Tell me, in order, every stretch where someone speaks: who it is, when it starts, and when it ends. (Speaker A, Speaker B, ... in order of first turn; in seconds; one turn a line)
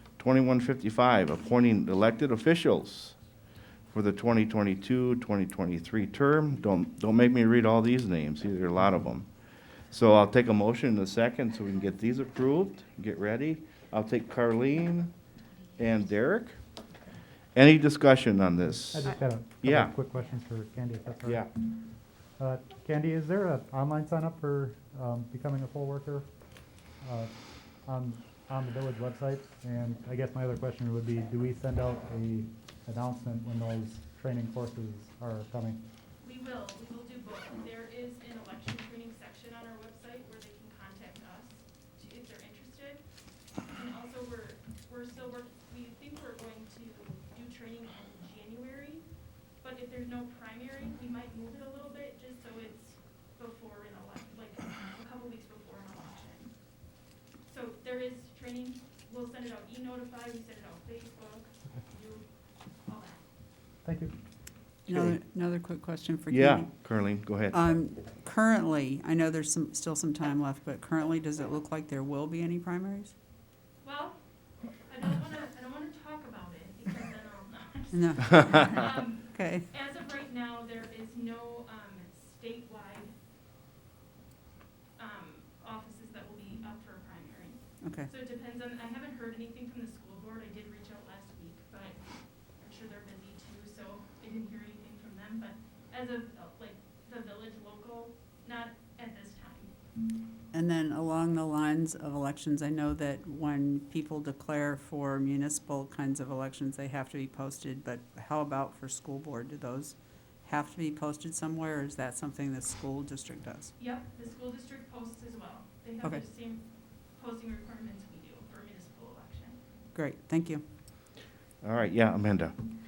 Speaker A: 0.2-3.2
Speaker A: 3.9-9.3
Speaker A: 9.9-15.1
Speaker A: 15.8-16.6
Speaker A: 17.5-19.9
Speaker B: 18.9-21.4
Speaker A: 21.2-21.5
Speaker B: 22.4-26.3
Speaker B: 27.0-27.3
Speaker B: 27.8-35.8
Speaker C: 36.2-43.0
Speaker C: 43.6-49.0
Speaker C: 49.6-56.5
Speaker C: 57.5-62.3
Speaker C: 62.8-63.2
Speaker B: 63.8-64.1
Speaker D: 64.8-66.7
Speaker A: 64.9-65.2
Speaker A: 66.3-67.6
Speaker D: 67.5-73.1
Speaker C: 73.8-74.2
Speaker C: 74.8-83.1
Speaker D: 77.9-78.8
Speaker D: 79.3-79.6
Speaker C: 85.0-99.7
Speaker D: 87.8-88.1
Speaker D: 100.5-113.7
Speaker C: 113.8-119.6
Speaker D: 119.9-120.6
Speaker A: 121.6-122.5